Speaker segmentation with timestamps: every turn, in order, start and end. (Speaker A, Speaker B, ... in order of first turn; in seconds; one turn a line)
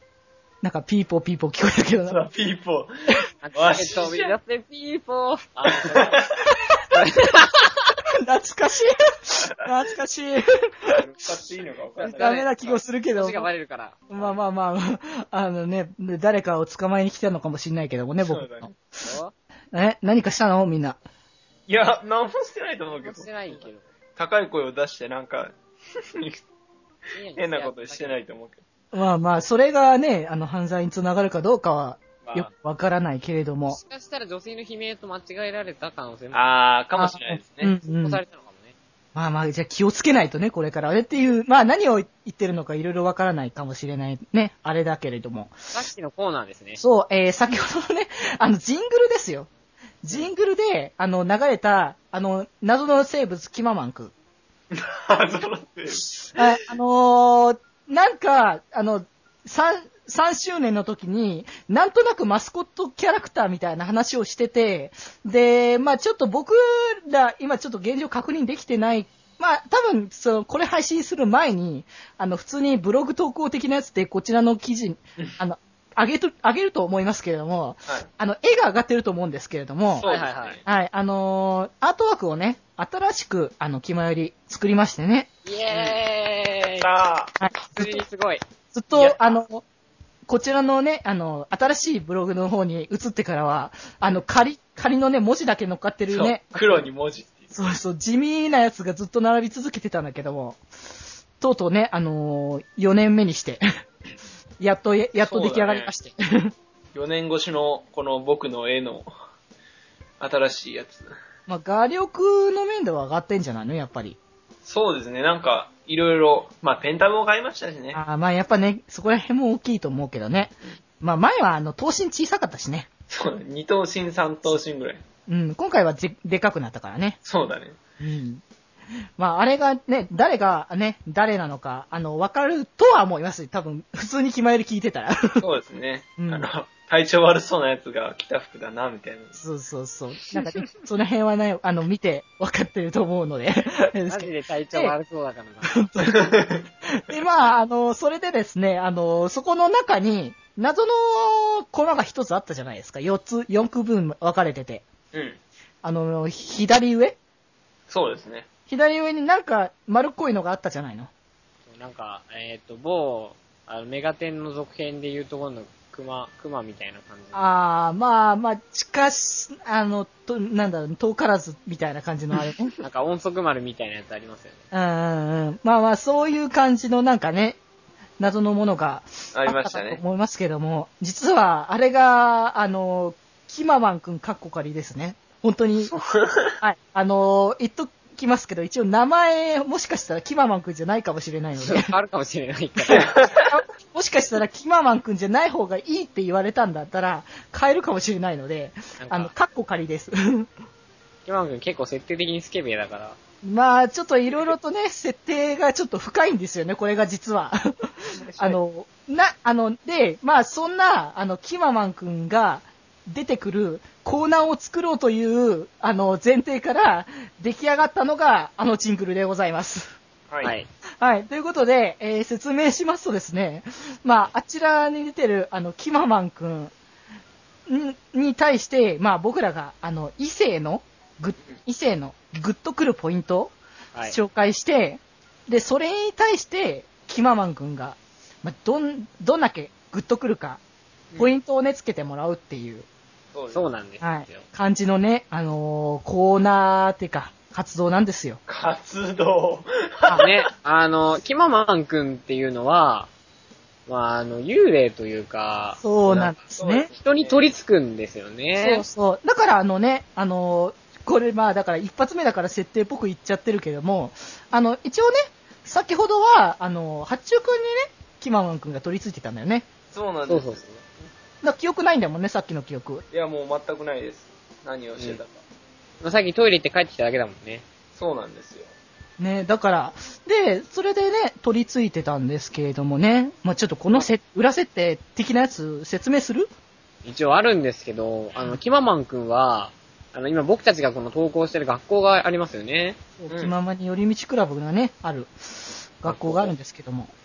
Speaker A: 0.6-2.2
Speaker B: 2.1-4.3
Speaker C: 3.4-6.2
Speaker B: 5.8-6.3
Speaker C: 6.9-7.7
Speaker A: 8.2-11.0
Speaker B: 10.9-12.5
Speaker C: 12.0-14.4
Speaker A: 12.1-13.5
Speaker A: 14.1-18.8
Speaker B: 18.2-18.7
Speaker C: 19.0-19.3
Speaker A: 19.7-21.0
Speaker B: 21.7-25.5
Speaker C: 22.9-23.9
Speaker B: 26.1-26.4
Speaker C: 27.1-28.2
Speaker B: 27.4-28.6
Speaker A: 28.9-33.8
Speaker B: 32.2-32.5
Speaker C: 33.7-36.5
Speaker B: 36.3-37.7
Speaker A: 37.0-38.2
Speaker C: 37.8-38.8
Speaker A: 39.1-45.6
Speaker C: 45.7-46.8
Speaker A: 46.8-49.5
Speaker A: 50.0-54.1
Speaker B: 54.7-56.4
Speaker A: 56.4-80.1
Speaker B: 80.0-80.6
Speaker C: 80.0-80.6
Speaker A: 80.7-85.3
Speaker C: 85.5-86.9
Speaker B: 86.8-87.3
Speaker A: 87.4-88.0
Speaker C: 87.8-88.4
Speaker A: 88.7-89.6
Speaker B: 88.9-89.3
Speaker A: 90.3-96.9
Speaker B: 96.1-97.5
Speaker A: 97.5-100.6
Speaker A: 101.4-103.6
Speaker A: 104.6-106.5
Speaker B: 105.2-105.9
Speaker B: 106.9-109.1
Speaker B: 110.2-111.2
Speaker A: 111.5-114.2
Speaker B: 114.7-118.0
Speaker A: 117.9-122.9
Speaker B: 123.1-125.0
Speaker A: 125.3-127.2
Speaker B: 127.2-127.8
Speaker A: 128.0-128.4
Speaker A: 129.2-135.4
Speaker B: 135.4-139.4
Speaker A: 136.2-136.5
Speaker A: 139.4-144.9
Speaker C: 144.1-145.8
Speaker A: 145.7-154.9
Speaker B: 146.1-146.7
Speaker B: 155.1-155.4
Speaker A: 155.8-157.2
Speaker B: 157.9-158.5
Speaker A: 158.7-161.1
Speaker C: 161.7-167.5
Speaker A: 167.3-172.7
Speaker C: 172.8-174.6
Speaker A: 174.7-177.6
Speaker A: 178.2-185.9
Speaker B: 179.3-180.0
Speaker B: 185.9-186.5
Speaker A: 186.6-191.9
Speaker C: 191.6-193.1
Speaker A: 192.9-200.5
Speaker B: 192.9-193.4
Speaker C: 199.0-199.3
Speaker C: 201.3-203.2
Speaker A: 203.4-219.9
Speaker B: 208.2-208.6
Speaker B: 220.3-220.6
Speaker C: 220.4-220.7
Speaker A: 221.0-226.7
Speaker A: 227.7-233.6
Speaker A: 234.1-240.6
Speaker A: 241.2-242.9
Speaker B: 243.3-243.7
Speaker C: 243.5-244.5
Speaker A: 244.0-248.4
Speaker B: 248.5-250.4
Speaker C: 250.1-253.1
Speaker C: 253.9-256.3
Speaker A: 255.8-256.9
Speaker B: 256.1-257.4
Speaker C: 257.0-258.9
Speaker A: 258.6-269.7
Speaker B: 269.9-270.6
Speaker C: 270.3-270.8
Speaker A: 271.4-273.0
Speaker B: 273.1-275.4
Speaker C: 276.0-277.6
Speaker B: 278.0-278.7
Speaker A: 279.2-286.5
Speaker C: 287.1-293.0
Speaker A: 293.2-297.1
Speaker B: 293.3-293.5
Speaker C: 296.1-296.5